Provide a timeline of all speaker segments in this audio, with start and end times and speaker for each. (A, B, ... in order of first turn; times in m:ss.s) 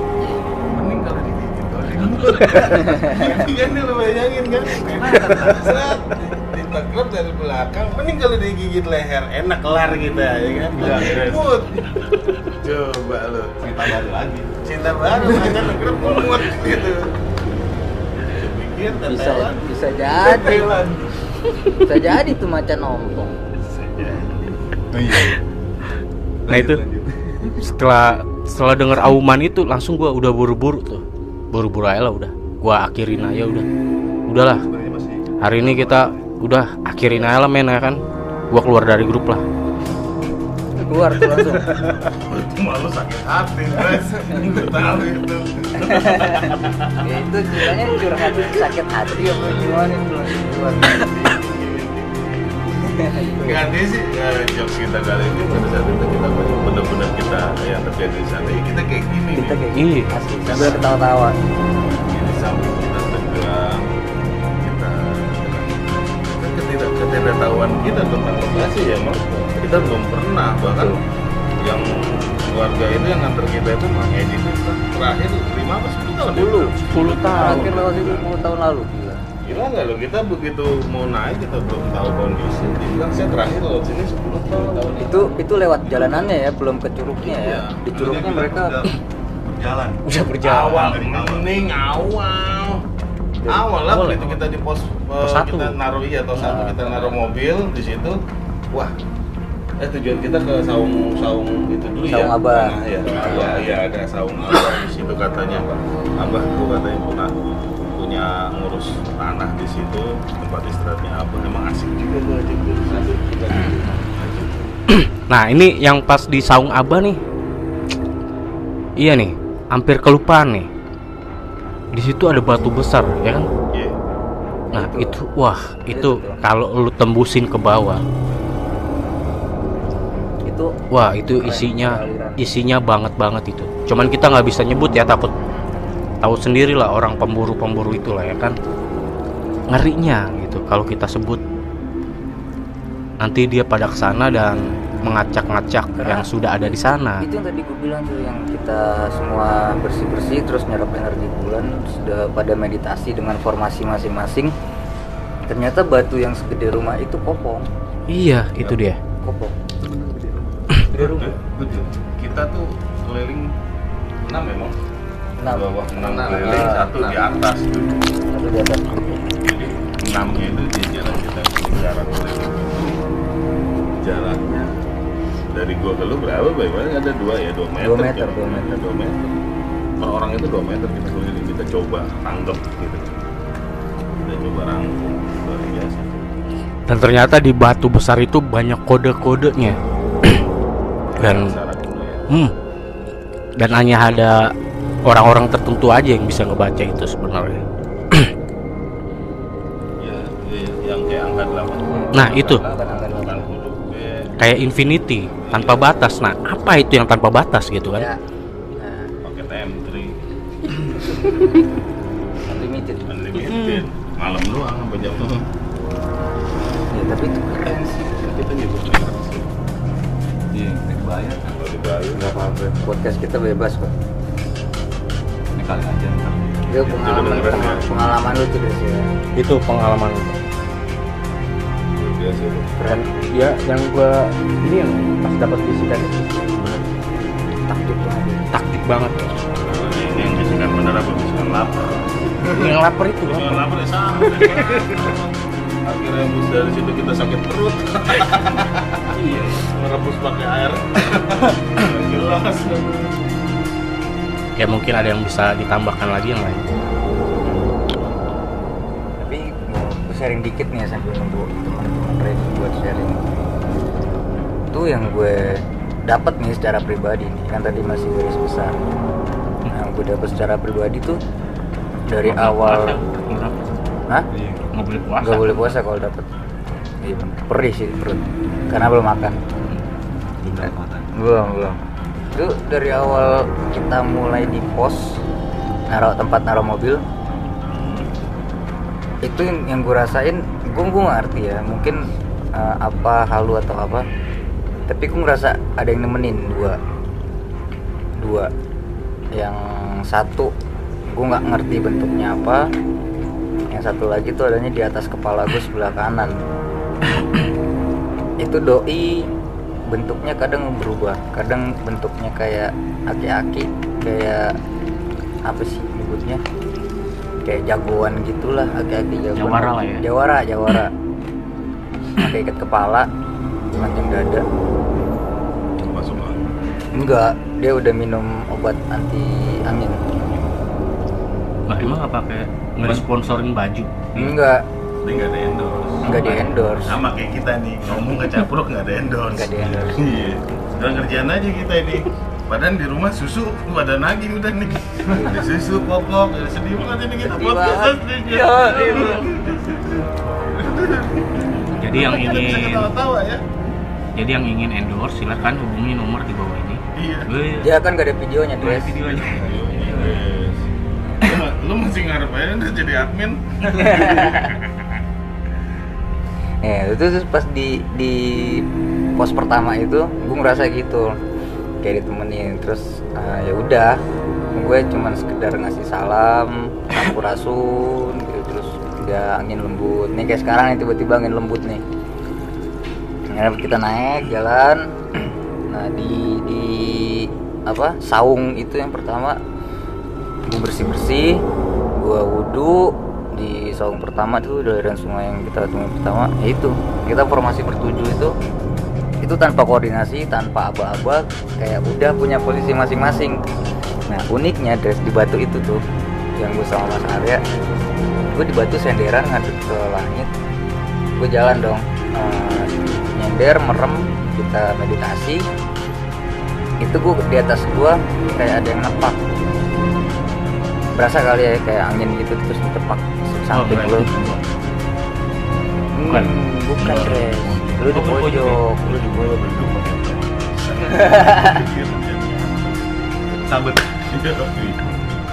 0:00.5-0:17.0 A
0:02.8-0:03.3 B
0:10.8-0:11.5 C
0:13.6-0:14.5 C
0:18.2-0:21.2 A
0:19.0-0:20.7 B
0:21.8-0:23.4 B
0:23.7-0:25.2 A
0:26.5-0:26.8 D
0:27.5-0:33.6 D
0:34.3-0:34.6 D
0:34.6-0:36.1 A
0:35.4-0:38.0 D
0:38.5-0:39.4 D
0:40.8-0:42.0 B
0:41.7-0:52.8 A
0:45.9-0:46.5 B
0:47.0-0:51.0 B
0:52.8-0:53.4 B
0:53.4-0:59.6 A
0:59.4-1:01.4 B
0:59.7-1:00.1 D
1:00.5-1:00.8 A
1:02.1-1:03.9 A
1:04.6-1:05.8 A
1:06.3-1:11.0 A
1:11.6-1:18.3 A
1:16.3-1:17.7 D
1:17.3-1:19.2 B
1:19.4-1:26.3 A
1:24.5-1:25.4 C
1:25.0-1:28.8 B
1:27.1-1:28.9 A
1:29.5-1:32.8 A
1:30.0-1:31.0 D
1:33.4-1:33.7 B
1:33.4-1:38.2 A
1:33.9-1:34.4 D
1:35.2-1:35.8 D
1:36.4-1:36.6 D
1:39.8-1:47.3 A
1:42.0-1:43.6 B
1:43.1-1:43.7 C
1:48.0-1:54.5 A
1:53.5-1:54.0 B
1:54.9-1:57.2 D
1:59.0-2:00.7 D
2:01.9-2:03.5 D
2:04.7-2:08.0 D
2:04.8-2:05.2 B
2:05.9-2:06.4 B
2:10.4-2:10.8 B
2:10.9-2:15.3 D
2:11.4-2:12.4 B
2:16.2-2:18.6 D
2:19.7-2:21.4 D
2:23.2-2:27.2 D
2:26.0-2:34.5 B
2:35.5-2:37.7 B
2:38.1-2:39.0 D
2:39.2-2:39.6 B
2:39.9-2:40.3 A
2:40.9-2:41.3 B
2:40.9-2:43.5 A
2:44.3-2:44.7 A
2:45.4-2:47.2 B
2:45.5-2:48.1 A
2:48.3-2:49.2 B
2:49.4-2:53.0 A
2:54.0-2:54.7 A
2:55.5-2:59.3 A
2:57.8-2:58.7 B
3:00.0-3:03.2 A
3:04.2-3:06.3 A
3:06.9-3:09.8 D
3:11.2-3:12.2 A
3:11.2-3:11.6 D
3:13.6-3:14.5 D
3:15.0-3:18.3 D
3:20.0-3:24.3 A
3:21.9-3:23.4 B
3:22.1-3:22.6 D
3:24.4-3:28.1 D
3:25.2-3:26.1 A
3:27.9-3:28.2 B
3:28.7-3:29.1 B
3:29.2-3:30.1 A
3:32.4-3:33.1 B
3:33.1-3:35.4 A
3:33.3-3:33.8 D
3:36.9-3:38.3 B
3:38.6-3:39.4 A
3:40.5-3:41.6 C
3:41.5-3:42.4 A
3:42.1-3:44.0 B
3:45.5-3:47.7 C
3:46.7-3:49.1 B
3:47.0-3:48.2 A
3:49.4-3:50.4 D
3:52.0-3:52.7 A
3:52.8-3:53.1 B
3:52.8-3:56.8 D
3:57.6-3:58.5 B
3:58.5-3:59.2 D
3:59.6-4:02.7 A
4:02.5-4:03.6 D
4:03.2-4:05.4 A
4:04.3-4:05.0 D
4:05.9-4:13.1 A
4:09.2-4:09.5 D
4:14.6-4:16.6 D
4:19.2-4:23.3 B
4:24.7-4:28.8 B
4:29.7-4:31.2 B
4:32.1-4:32.9 B
4:32.2-4:33.7 D
4:34.6-4:35.8 D
4:35.2-4:36.3 B
4:37.0-4:39.4 B
4:40.6-4:41.1 C
4:41.1-4:41.8 B
4:42.3-4:45.2 B
4:45.9-4:47.0 B
4:47.7-4:48.1 A
4:49.2-4:54.1 B
4:54.9-4:56.8 B
4:58.2-4:58.5 B
4:59.3-5:00.5 B
5:01.1-5:02.7 B
5:03.7-5:06.4 B
5:08.4-5:09.3 B
5:09.9-5:14.5 B
5:15.4-5:16.4 B
5:17.4-5:20.9 B
5:19.4-5:20.0 D
5:22.2-5:23.1 B
5:23.8-5:24.4 B
5:25.8-5:26.4 A
5:26.9-5:30.0 B
5:31.7-5:34.1 D
5:34.1-5:34.6 B
5:35.0-5:36.2 A
5:36.0-5:37.0 B
5:36.0-5:36.5 D
5:36.8-5:53.4 A
5:39.3-5:40.0 B
5:45.1-5:45.4 B
5:47.2-5:49.1 B
5:51.7-5:52.9 D
5:54.2-5:57.8 D
5:57.0-5:57.3 A
5:57.6-5:58.9 B
5:58.6-6:00.1 D
5:59.1-6:00.6 A
5:59.8-6:00.2 C
6:01.2-6:04.8 A
6:03.7-6:04.5 B
6:06.6-6:08.6 B
6:09.2-6:11.1 B
6:11.8-6:14.0 B
6:14.6-6:21.8 B
6:23.3-6:24.8 B
6:25.7-6:29.4 B
6:30.5-6:31.4 B
6:32.0-6:38.3 B
6:39.2-6:43.4 B
6:44.1-6:45.8 B
6:46.4-6:47.4 B
6:48.3-6:50.3 B
6:51.2-6:55.4 B
6:56.8-6:59.2 B
7:01.0-7:04.1 B
7:03.5-7:04.4 D
7:05.9-7:09.4 B
7:06.1-7:06.3 D
7:06.8-7:08.0 A
7:07.9-7:08.6 D
7:08.8-7:14.8 A
7:11.0-7:11.5 B